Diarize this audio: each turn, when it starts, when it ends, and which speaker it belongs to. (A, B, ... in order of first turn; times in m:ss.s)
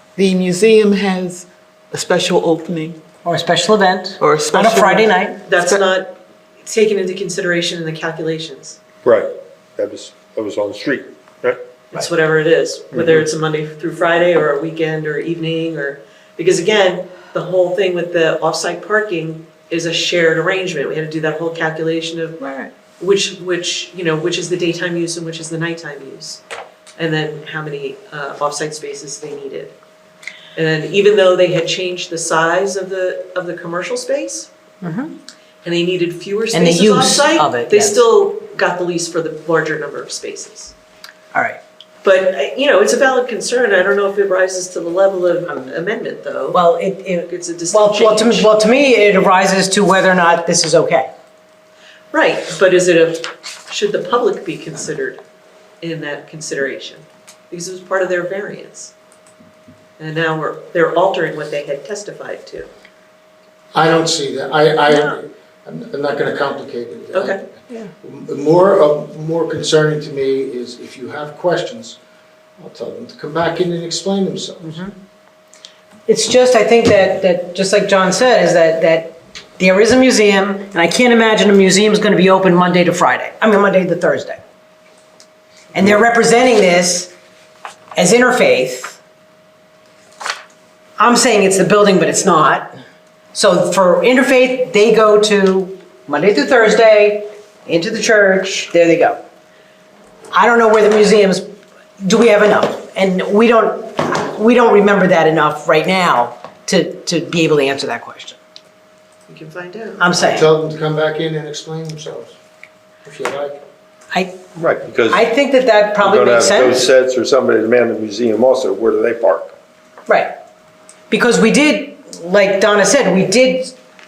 0:00.2-0:03.0 A
0:03.2-0:05.4 B
0:04.2-0:05.0 A
0:05.5-0:08.8 C
0:09.0-0:11.6 D
0:11.9-0:26.4 C
0:12.9-0:13.3 D
0:27.0-0:29.8 C
0:30.6-0:34.5 C
0:34.8-0:35.1 B
0:35.6-0:40.7 C
0:36.5-0:38.1 B
0:41.3-0:41.6 B
0:42.0-0:46.6 C
0:46.5-0:51.1 B
0:47.3-0:48.5 C
0:52.1-0:55.2 C
0:55.8-0:58.9 C
1:00.0-1:02.7 C
1:03.7-1:12.0 E
1:04.9-1:05.2 B
1:07.1-1:07.4 C
1:12.6-1:14.8 E
1:14.6-1:14.9 B
1:16.1-1:24.4 B
1:25.7-1:27.1 B
1:28.0-1:29.0 B
1:31.0-1:32.7 B
1:33.3-1:39.2 B
1:40.3-1:41.5 B
1:42.0-1:48.4 B
1:49.3-1:50.2 C
1:50.0-1:50.5 B
1:50.2-1:52.4 E
1:53.0-1:53.6 E
1:54.1-1:54.5 B
1:54.6-1:55.3 D
1:55.1-1:56.8 B
1:56.0-1:59.6 D
2:00.1-2:00.3 B
2:01.1-2:03.8 B